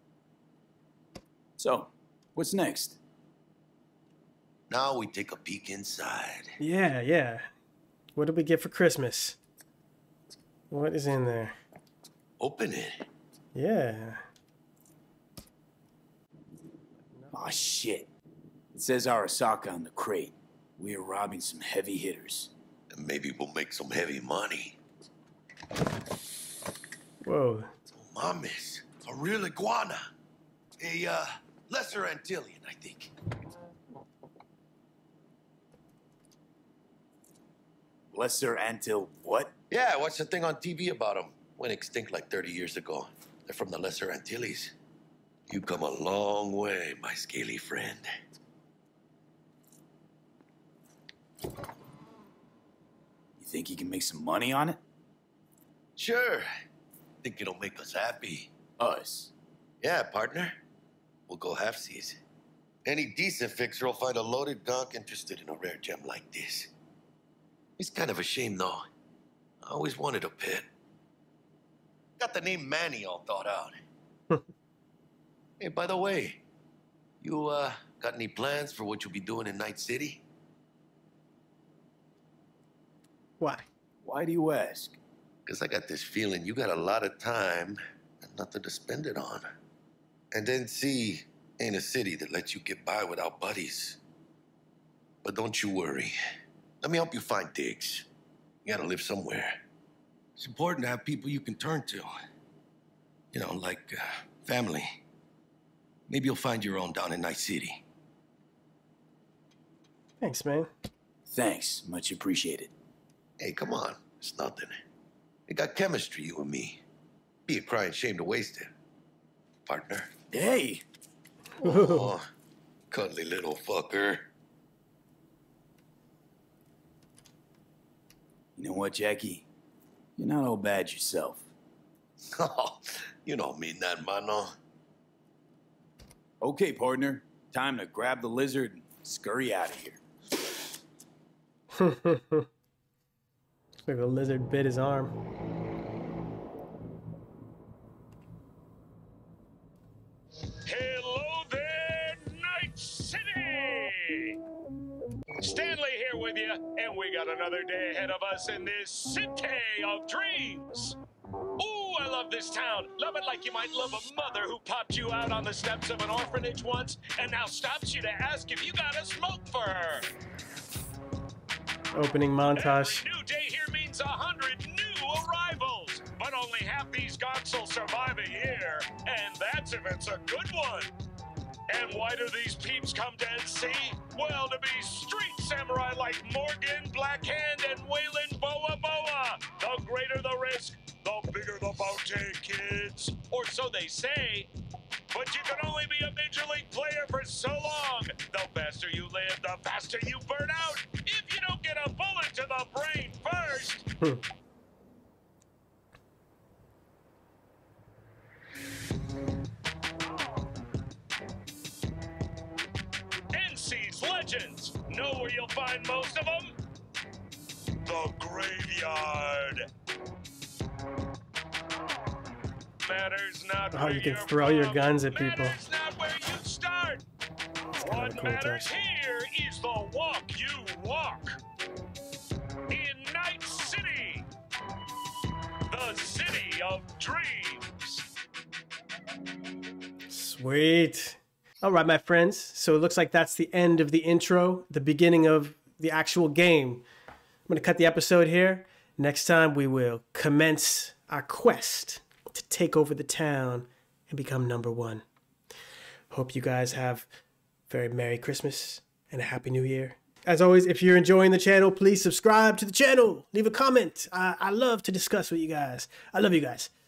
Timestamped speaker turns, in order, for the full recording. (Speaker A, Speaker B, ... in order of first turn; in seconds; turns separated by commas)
Speaker A: 1.6-3.0, Speaker B: 4.7-6.5, Speaker C: 6.6-7.5, Speaker C: 8.1-9.4, Speaker C: 10.7-11.6, Speaker B: 12.4-13.0, Speaker C: 13.5-14.2, Speaker A: 17.3-18.1, Speaker A: 18.7-22.5, Speaker B: 22.9-24.8, Speaker C: 27.2-27.7, Speaker B: 27.9-30.1, Speaker B: 30.8-33.1, Speaker A: 38.1-39.5, Speaker B: 39.7-44.7, Speaker B: 45.5-48.0, Speaker A: 53.4-54.8, Speaker B: 56.0-56.5, Speaker B: 57.2-58.5, Speaker A: 58.8-59.3, Speaker B: 59.8-60.6, Speaker B: 61.3-62.2, Speaker B: 62.9-66.7, Speaker B: 67.8-68.8, Speaker B: 69.6-70.7, Speaker B: 72.2-73.8, Speaker B: 75.6-76.4, Speaker B: 77.2-80.2, Speaker C: 83.4-83.7, Speaker A: 84.0-85.0, Speaker B: 85.5-89.5, Speaker B: 90.3-94.0, Speaker B: 95.2-96.1, Speaker B: 96.8-98.0, Speaker B: 98.6-99.6, Speaker B: 100.4-102.1, Speaker B: 103.3-105.0, Speaker B: 106.1-107.8, Speaker C: 110.2-110.7, Speaker A: 111.2-112.7, Speaker B: 113.4-114.8, Speaker B: 115.5-116.8, Speaker B: 117.5-118.7, Speaker B: 119.7-120.1, Speaker A: 120.3-120.8, Speaker C: 121.6-122.1, Speaker B: 121.6-122.3, Speaker B: 122.9-124.3, Speaker A: 128.6-129.4, Speaker A: 130.2-131.5, Speaker B: 132.3-134.5, Speaker A: 136.4-140.0, Speaker C: 141.7-142.5, Speaker C: 143.8-145.1, Speaker D: 150.7-154.3, Speaker D: 155.4-160.9, Speaker D: 161.6-170.1, Speaker C: 171.9-173.0, Speaker D: 172.5-180.9, Speaker D: 181.7-194.5, Speaker D: 195.1-203.8, Speaker D: 213.3-216.5, Speaker D: 217.8-219.6, Speaker D: 222.8-227.0, Speaker C: 223.7-225.6, Speaker C: 227.8-228.7, Speaker D: 227.8-231.4, Speaker D: 232.7-234.2, Speaker D: 235.7-238.0, Speaker C: 240.1-246.8, Speaker C: 247.5-255.0, Speaker C: 256.1-257.1, Speaker C: 257.7-266.7